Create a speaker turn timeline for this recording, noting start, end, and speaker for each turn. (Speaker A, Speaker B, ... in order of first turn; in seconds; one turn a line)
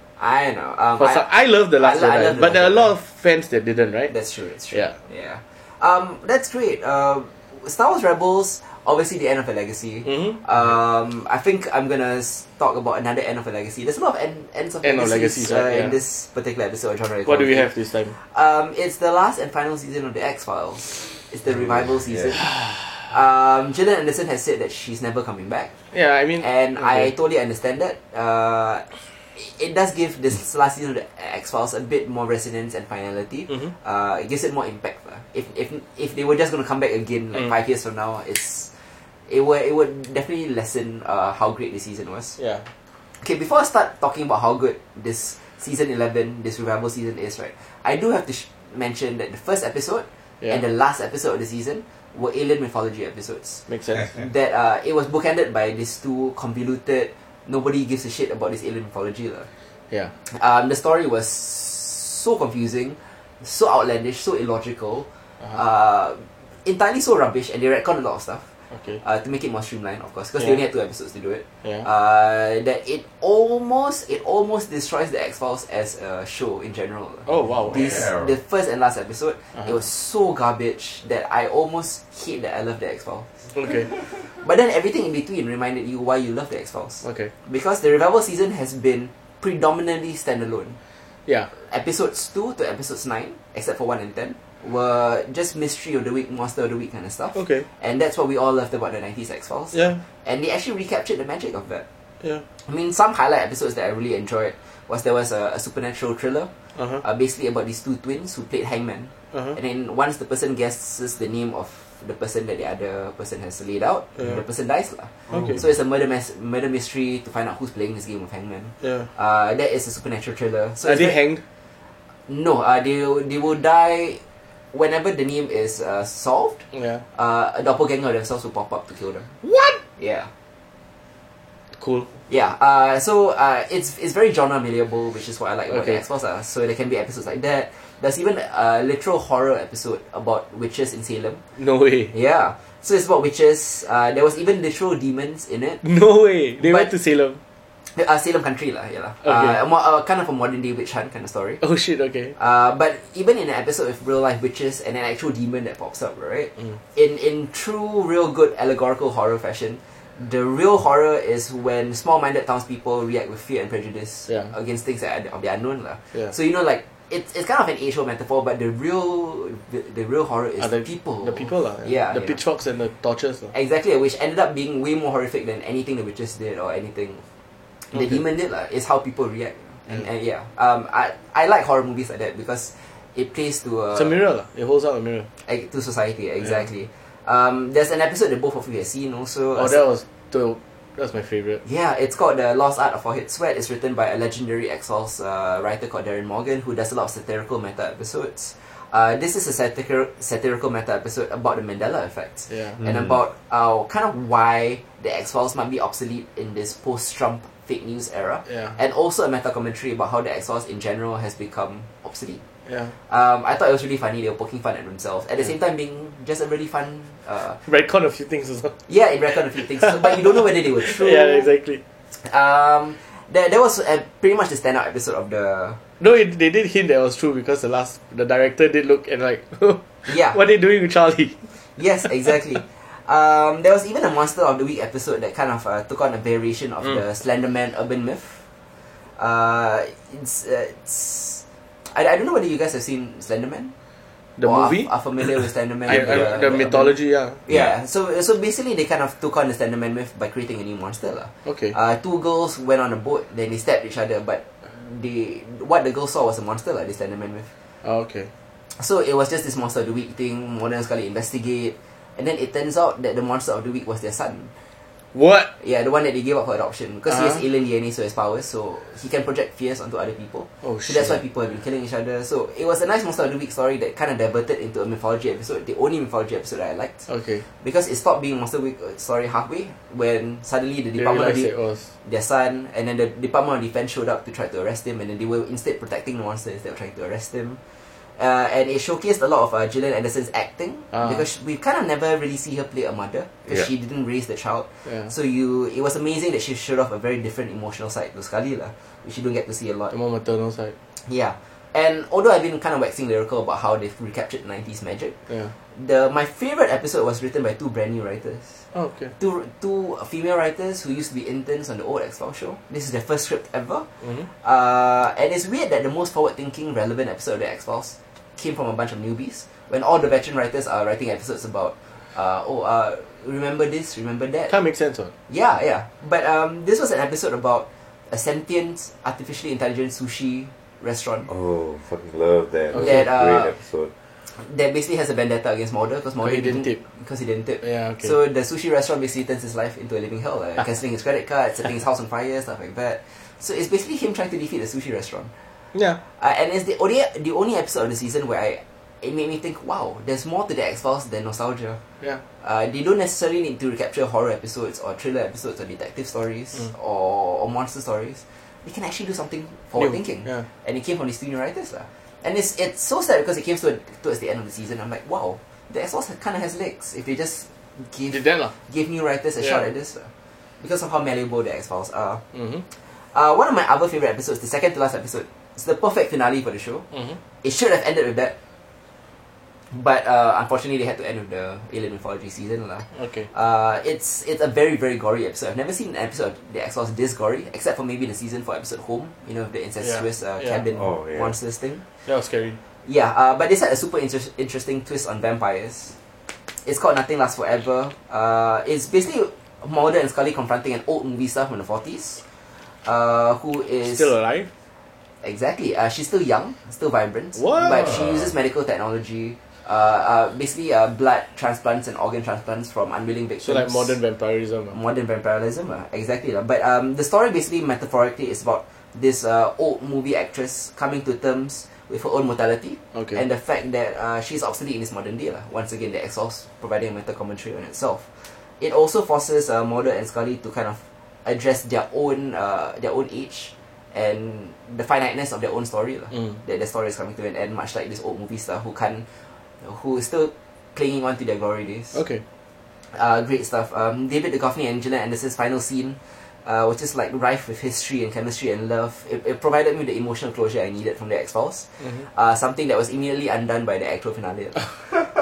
Speaker A: 0.2-2.9
Speaker B: 1.0-4.2
Speaker A: 4.1-25.7
Speaker B: 10.1-10.4
Speaker B: 14.8-16.0
Speaker B: 17.3-18.2
Speaker C: 21.5-22.4
Speaker B: 25.9-27.1
Speaker A: 26.4-38.7
Speaker B: 33.5-33.7
Speaker A: 39.3-42.4
Speaker B: 42.4-42.7
Speaker A: 43.2-59.5
Speaker B: 53.7-54.1
Speaker C: 54.0-54.2
Speaker A: 60.3-68.5
Speaker B: 68.7-69.0
Speaker A: 69.0-90.8
Speaker B: 77.3-78.1
Speaker C: 77.7-78.3
Speaker B: 83.5-83.9
Speaker B: 87.0-87.3
Speaker A: 91.5-101.8
Speaker B: 97.3-97.7
Speaker B: 99.7-100.0
Speaker A: 102.6-121.2
Speaker B: 106.8-107.0
Speaker C: 115.3-115.6
Speaker B: 115.3-115.6
Speaker B: 118.8-119.1
Speaker B: 120.8-121.4
Speaker A: 122.3-129.3
Speaker B: 126.7-127.0
Speaker B: 129.4-129.8
Speaker A: 130.0-130.3
Speaker B: 131.8-132.1
Speaker A: 132.3-141.4
Speaker B: 135.7-136.0
Speaker B: 141.6-142.1
Speaker A: 142.1-145.8
Speaker B: 145.8-147.4
Speaker A: 146.6-146.9
Speaker A: 147.9-151.6
Speaker B: 149.2-149.6
Speaker B: 151.6-152.4
Speaker A: 152.4-172.4
Speaker B: 164.3-164.5
Speaker B: 170.6-173.5
Speaker A: 173.5-177.2
Speaker A: 177.8-184.2
Speaker B: 177.9-178.2
Speaker B: 183.9-185.3
Speaker A: 185.4-189.8
Speaker B: 189.6-191.6
Speaker A: 191.6-212.4
Speaker B: 202.5-202.8
Speaker C: 202.8-203.2
Speaker B: 208.5-208.8
Speaker B: 212.7-212.9
Speaker A: 213.1-217.6
Speaker B: 217.6-218.8
Speaker A: 218.9-221.5
Speaker B: 219.6-221.8
Speaker A: 222.2-225.8
Speaker B: 226.0-231.5
Speaker A: 230.1-230.4
Speaker A: 231.8-238.4
Speaker A: 239.2-243.7
Speaker B: 244.4-247.4
Speaker A: 244.4-257.5
Speaker B: 251.4-251.8
Speaker B: 257.8-258.3
Speaker A: 258.7-264.5
Speaker B: 265.1-265.5
Speaker A: 265.6-277.1
Speaker B: 267.1-267.4
Speaker B: 270.6-271.2
Speaker B: 277.1-277.4
Speaker A: 277.6-281.5
Speaker B: 281.0-281.9
Speaker A: 282.0-287.6
Speaker A: 288.1-299.9
Speaker B: 290.9-291.3
Speaker B: 294.9-295.1
Speaker B: 299.9-300.8
Speaker A: 301.0-305.2
Speaker B: 305.3-305.6
Speaker A: 305.7-308.6
Speaker B: 308.7-309.1
Speaker A: 309.2-324.6
Speaker B: 314.0-314.3
Speaker B: 324.5-325.1
Speaker A: 325.3-331.3
Speaker C: 331.3-333.9
Speaker B: 332.7-333.1
Speaker A: 332.7-333.5
Speaker A: 334.3-345.3
Speaker B: 336.2-336.8
Speaker B: 337.6-338.2
Speaker B: 345.7-346.0
Speaker A: 346.2-351.8
Speaker A: 352.4-372.2
Speaker B: 359.8-360.5
Speaker B: 368.1-368.5
Speaker B: 369.4-369.7
Speaker B: 372.3-372.6
Speaker A: 373.0-376.9
Speaker B: 376.9-377.2
Speaker A: 377.4-378.4
Speaker A: 379.7-391.8
Speaker B: 382.9-383.3
Speaker B: 389.8-390.6
Speaker C: 390.8-391.4
Speaker B: 392.1-392.6
Speaker A: 392.9-396.0
Speaker A: 396.6-402.2
Speaker A: 402.8-404.1
Speaker B: 403.8-404.5
Speaker A: 405.2-414.0
Speaker B: 407.4-408.0
Speaker C: 408.0-408.3
Speaker B: 413.4-414.8
Speaker A: 414.7-442.0
Speaker B: 422.9-423.2
Speaker B: 436.1-436.4
Speaker B: 441.9-442.2
Speaker A: 442.9-454.7
Speaker B: 451.8-452.1